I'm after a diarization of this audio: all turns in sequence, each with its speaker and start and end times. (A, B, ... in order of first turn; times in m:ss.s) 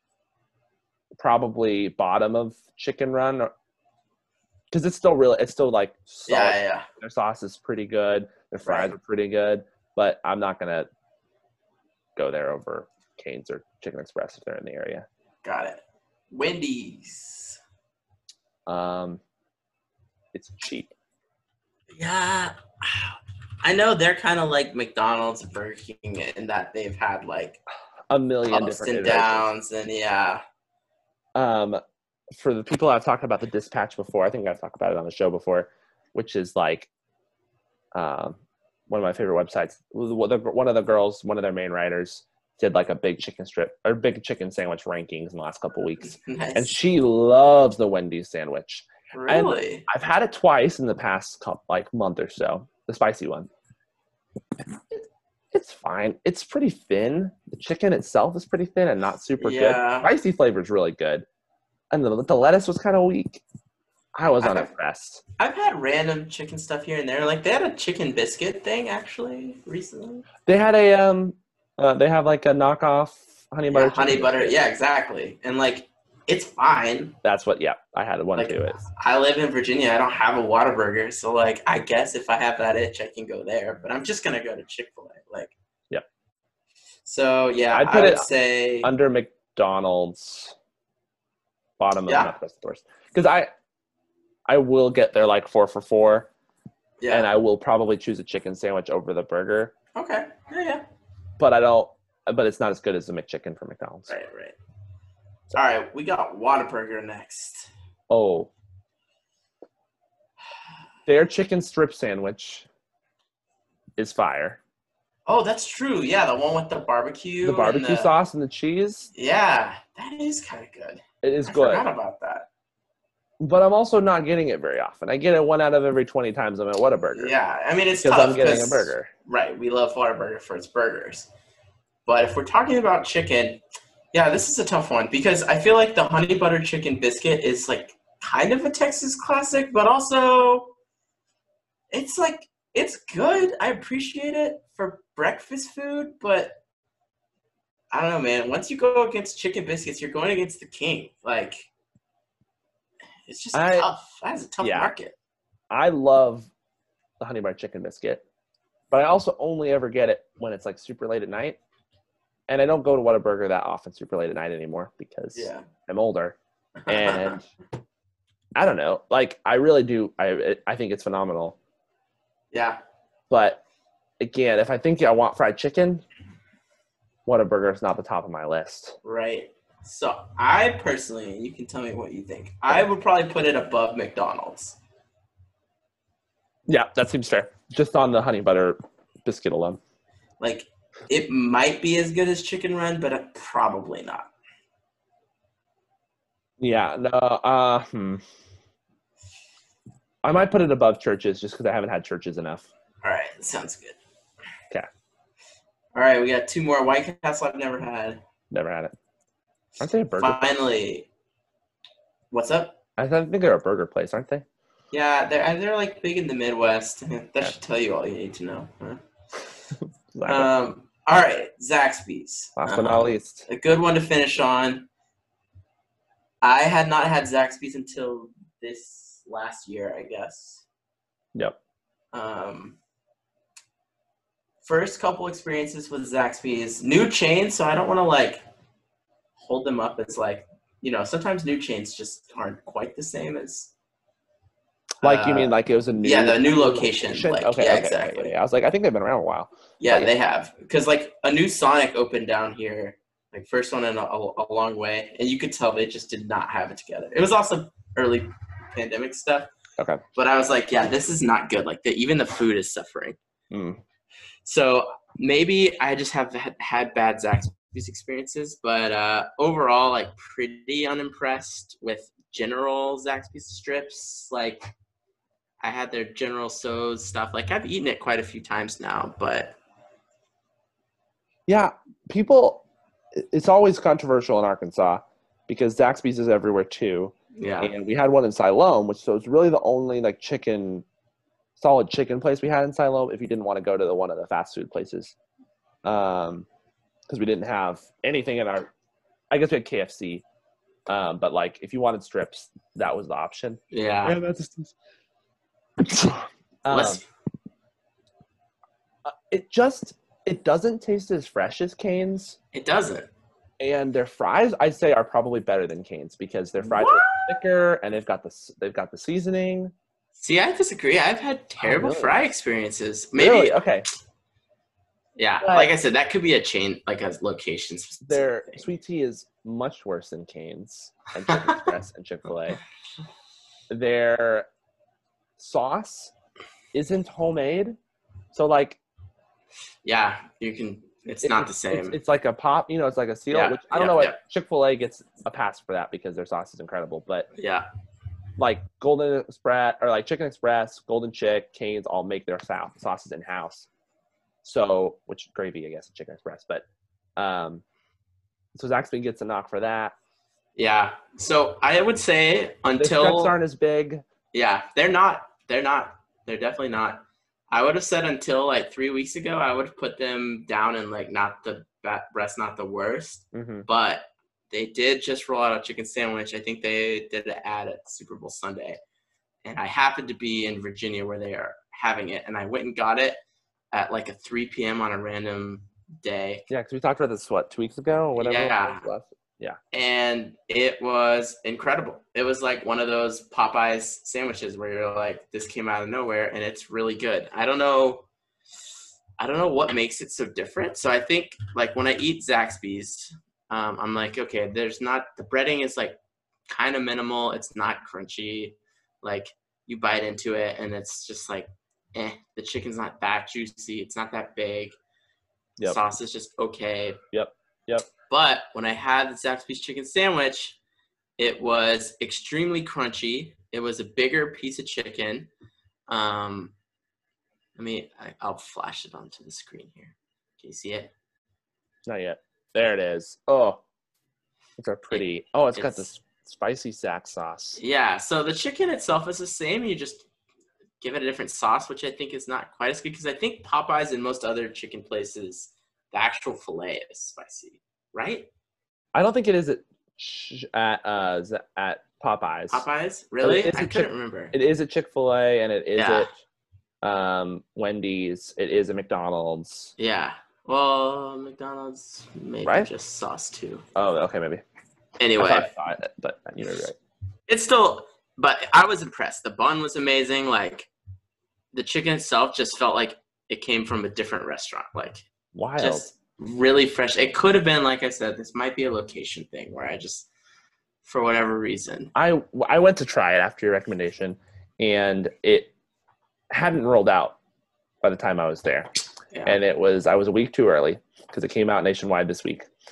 0:01.2-0:03.5 A
0:04.7-0:10.9 A
0:06.3-0:06.9 B
0:08.6-0:08.9 B
0:12.2-0:15.0 A
0:15.4-0:17.6 B
0:18.7-0:19.2 A
0:20.3-0:20.9 A
0:21.9-0:27.6 B
0:28.1-0:29.5 A
0:28.5-0:30.4 B
0:31.3-0:31.8 A
0:32.3-0:36.9 A
0:37.9-0:53.5 A
0:46.0-0:46.8 B
0:49.1-0:49.8 B
0:54.9-1:01.2 A
0:59.4-1:00.1 B
1:01.9-1:03.4 A
1:04.1-1:05.2 A
1:04.4-1:04.7 B
1:05.4-1:10.3 B
1:10.4-1:14.6 A
1:13.7-1:17.2 B
1:17.2-1:18.8 A
1:18.4-1:25.5 B
1:27.0-1:28.9 B
1:27.7-1:28.3 A
1:28.8-1:30.5 A
1:31.8-1:33.5 A
1:32.1-1:32.3 B
1:34.5-1:36.3 A
1:37.0-1:37.3 B
1:37.1-1:39.7 A
1:39.9-1:40.8 B
1:41.4-1:44.1 A
1:44.1-1:44.6 B
1:45.5-1:47.7 B
1:48.1-1:48.5 A
1:51.1-1:52.7 A
1:54.0-1:54.6 A
1:55.3-1:58.1 B
1:57.4-1:59.1 A
1:59.1-2:02.5 B
2:01.2-2:01.8 A
2:03.4-2:07.3 A
2:07.1-2:11.3 B
2:08.0-2:09.1 A
2:12.0-2:13.6 B
2:14.1-2:20.7 B
2:21.9-2:26.6 B
2:27.9-2:31.7 B
2:33.3-2:35.1 B
2:33.5-2:33.9 A
2:34.6-2:34.9 A
2:35.7-2:36.5 A
2:37.2-2:38.2 A
2:38.9-2:41.6 A
2:42.5-2:46.4 A
2:45.3-2:45.6 B
2:46.8-2:47.4 B
2:46.9-2:47.4 A
2:48.6-2:51.6 A
2:52.5-2:52.8 B
2:53.3-2:53.6 A
2:54.2-2:56.0 A
2:57.2-2:59.0 A
2:59.0-3:04.8 B
3:06.7-3:09.8 A
3:10.4-3:14.3 B
3:16.6-3:18.2 A
3:20.2-3:22.7 A
3:23.0-3:24.0 B
3:25.9-3:28.2 B
3:28.5-3:28.9 A
3:29.8-3:30.5 A
3:30.2-3:31.1 B
3:32.3-3:32.8 B
3:33.0-3:34.4 A
3:34.9-3:39.0 B
3:40.1-3:40.5 A
3:40.2-3:44.9 B
3:42.6-3:43.4 A
3:46.4-3:50.6 B
3:52.1-3:52.8 B
3:54.6-3:58.4 B
3:59.4-4:03.7 B
4:05.0-4:08.3 B
4:05.0-4:10.1 A
4:09.8-4:19.5 B
4:20.2-4:23.2 B
4:23.5-4:23.8 A
4:24.4-4:34.7 B
4:35.6-4:39.6 B
4:41.5-4:42.6 A
4:43.2-4:50.8 A
4:47.3-4:47.7 B
4:51.6-4:55.1 A
4:55.8-4:56.5 A
4:57.1-4:58.7 A
4:59.3-5:00.2 A
5:00.9-5:04.7 A
5:03.7-5:04.2 B
5:05.8-5:07.0 A
5:06.7-5:07.0 B
5:09.0-5:12.4 A
5:12.5-5:13.1 B
5:13.6-5:19.7 A
5:16.6-5:17.3 B
5:20.2-5:23.6 B
5:21.6-5:22.2 A
5:23.2-5:23.8 A
5:25.2-5:28.6 B
5:25.4-5:25.7 A
5:28.1-5:32.6 A
5:31.3-5:31.7 B
5:33.7-5:34.5 A
5:35.4-5:36.1 A
5:36.7-5:37.8 A
5:38.3-5:38.8 A
5:39.8-5:42.0 B
5:41.2-5:47.3 A
5:43.3-5:44.2 B
5:47.3-5:47.7 B
5:48.4-5:53.7 A
5:54.4-5:56.6 A
5:57.2-5:57.6 A
5:58.5-5:59.9 A
6:00.6-6:03.4 B
6:02.8-6:04.0 A
6:04.3-6:18.8 B
6:13.3-6:13.6 A
6:19.4-6:23.2 B
6:23.7-6:26.5 B
6:26.5-6:29.6 A
6:28.2-6:28.9 B
6:29.7-6:38.0 B
6:39.2-6:46.0 B
6:46.5-6:54.8 B
6:55.6-6:57.0 B
6:57.1-6:57.8 A
6:58.1-7:00.6 B
7:01.2-7:05.3 B
7:05.9-7:06.5 B
7:07.6-7:10.9 B
7:11.8-7:13.6 A
7:14.6-7:17.6 A
7:14.9-7:15.9 B
7:17.6-7:20.1 B
7:20.8-7:28.3 B
7:28.9-7:32.6 A
7:32.5-7:34.3 B
7:33.2-7:36.1 A
7:35.8-7:36.1 B
7:36.8-7:39.7 A
7:39.8-7:43.6 B
7:42.4-7:42.7 A
7:43.8-7:44.4 A
7:45.0-7:45.5 B
7:45.2-7:46.8 A
7:47.3-7:50.7 B
7:51.5-7:55.0 B
7:55.3-7:55.8 A
7:55.6-8:00.1 B
8:00.8-8:01.9 B
8:01.9-8:05.5 A
8:06.3-8:07.2 A
8:07.8-8:08.7 A
8:09.1-8:09.4 B
8:09.2-8:12.5 A